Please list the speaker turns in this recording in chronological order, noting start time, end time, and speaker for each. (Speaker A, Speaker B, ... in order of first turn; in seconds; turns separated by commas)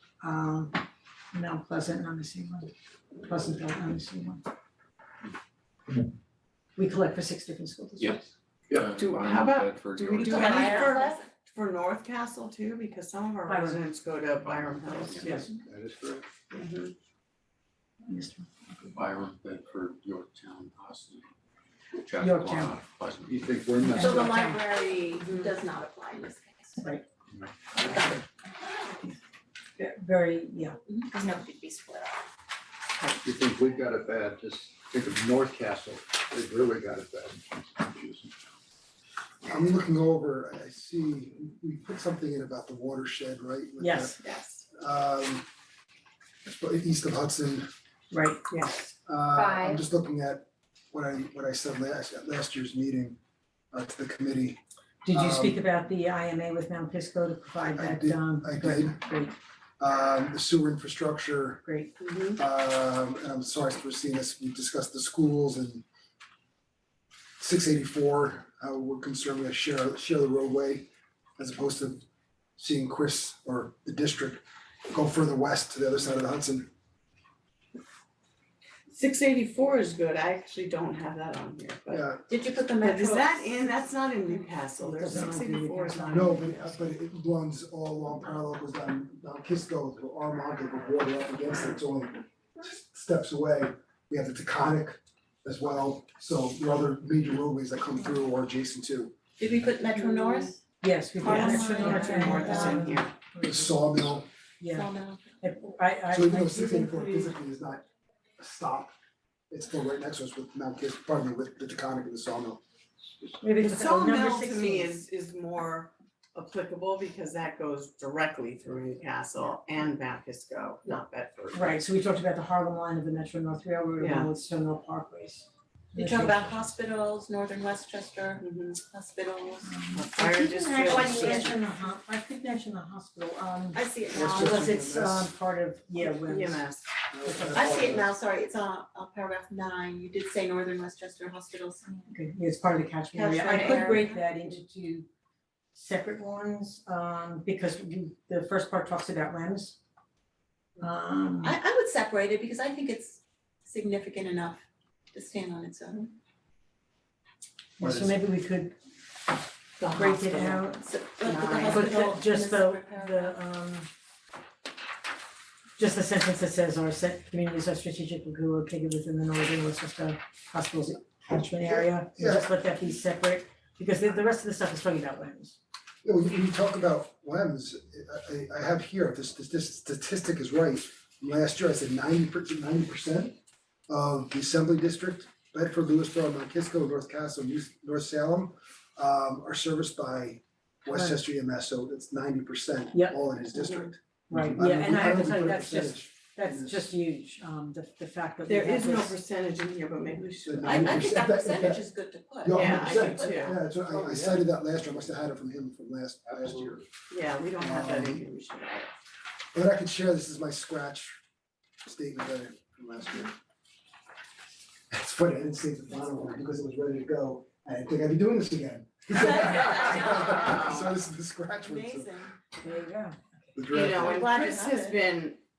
Speaker A: 0.2-0.7, Speaker A: 1.3-2.7, Speaker A: 3.2-4.4, Speaker A: 6.8-8.3, Speaker B: 8.0-11.0, Speaker C: 8.9-15.5, Speaker D: 10.2-11.3, Speaker A: 10.3-10.9, Speaker A: 13.5-13.8, Speaker B: 14.4-15.4, Speaker A: 15.2-15.5, Speaker E: 15.6-16.2, Speaker C: 16.5-16.9, Speaker A: 18.1-18.9, Speaker B: 18.9-21.3, Speaker B: 22.0-23.6, Speaker A: 22.2-22.7, Speaker E: 23.2-24.5, Speaker A: 23.9-24.6, Speaker D: 23.9-26.9, Speaker C: 25.2-25.5, Speaker A: 29.8-30.8, Speaker D: 30.9-32.1, Speaker E: 33.2-38.4, Speaker F: 39.4-45.4, Speaker A: 43.8-44.2, Speaker F: 46.5-47.7, Speaker A: 48.1-48.9, Speaker F: 49.0-53.2, Speaker F: 53.7-54.6, Speaker A: 55.0-59.4, Speaker F: 55.1-55.6, Speaker F: 57.7-59.0, Speaker F: 59.8-61.6, Speaker A: 61.6-61.9, Speaker C: 62.0-62.4, Speaker F: 62.4-65.8, Speaker F: 67.4-72.0, Speaker F: 72.6-76.7, Speaker C: 78.9-82.1, Speaker F: 81.9-82.2, Speaker D: 82.3-83.6, Speaker C: 82.8-86.8, Speaker A: 84.8-86.7, Speaker F: 86.1-99.1, Speaker D: 99.4-100.6, Speaker A: 100.8-103.8, Speaker D: 101.2-103.0, Speaker C: 101.2-103.1, Speaker F: 103.4-104.3, Speaker A: 104.6-107.3, Speaker D: 104.7-105.4, Speaker F: 106.1-107.8, Speaker F: 108.4-108.9, Speaker F: 109.5-112.6, Speaker A: 113.4-115.0, Speaker C: 113.6-121.8, Speaker A: 121.5-126.6, Speaker C: 124.0-124.3, Speaker D: 125.9-129.8, Speaker C: 128.4-128.8, Speaker A: 129.6-136.6, Speaker C: 129.9-131.6, Speaker D: 130.8-131.6, Speaker D: 133.7-134.6, Speaker F: 134.1-135.3, Speaker C: 136.0-136.9, Speaker F: 137.1-138.1, Speaker A: 137.2-137.9, Speaker D: 137.5-141.9, Speaker A: 142.1-145.1, Speaker D: 143.1-144.2, Speaker A: 145.7-149.8, Speaker A: 150.8-151.6, Speaker D: 151.4-154.6, Speaker D: 155.1-156.1, Speaker A: 157.8-158.7, Speaker F: 157.8-158.2, Speaker A: 159.9-160.8, Speaker D: 159.9-163.3, Speaker C: 161.2-162.1, Speaker A: 161.6-163.9, Speaker A: 165.8-175.6, Speaker F: 171.7-172.5, Speaker F: 176.0-183.3, Speaker F: 183.9-196.9, Speaker A: 190.9-191.2, Speaker C: 193.5-193.9, Speaker A: 194.3-199.2, Speaker C: 198.5-201.1, Speaker F: 200.4-201.8, Speaker D: 200.6-203.6, Speaker F: 202.4-206.8, Speaker C: 202.4-203.6, Speaker E: 203.8-205.0, Speaker E: 206.3-206.8, Speaker C: 207.1-208.9, Speaker F: 207.6-208.2, Speaker F: 209.5-211.2, Speaker F: 211.8-213.3, Speaker F: 214.9-222.2, Speaker D: 219.8-220.3, Speaker C: 220.3-220.7, Speaker D: 221.6-222.4, Speaker A: 222.6-223.6, Speaker F: 223.5-224.3, Speaker C: 223.7-225.4, Speaker D: 223.9-225.0